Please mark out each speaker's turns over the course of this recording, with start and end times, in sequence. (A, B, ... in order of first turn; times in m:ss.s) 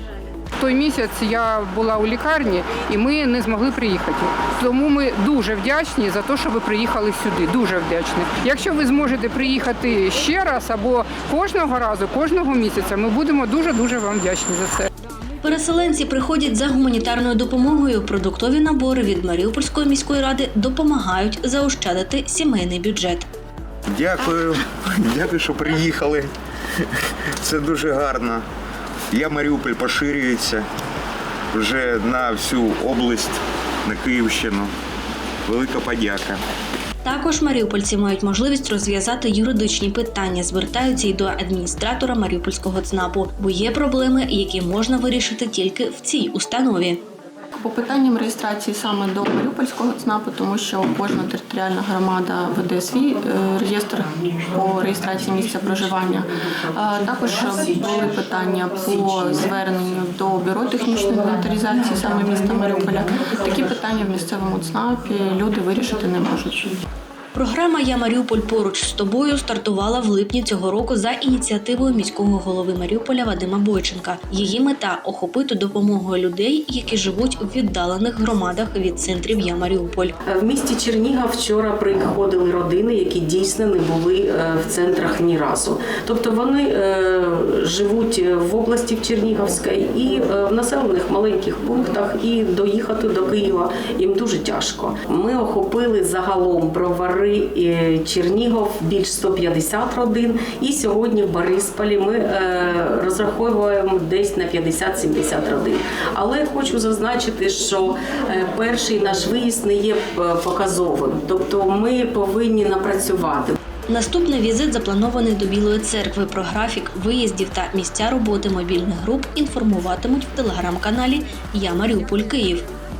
0:00.6-0:14.9 A
0:15.4-0:23.3 B
0:23.9-0:28.4 C
0:29.1-0:30.7 C
0:31.5-0:34.7 C
0:35.4-0:36.4 C
0:37.0-0:47.0 B
0:47.6-1:06.7 D
1:07.3-1:20.1 B
1:20.3-1:53.6 E
1:53.9-2:02.6 B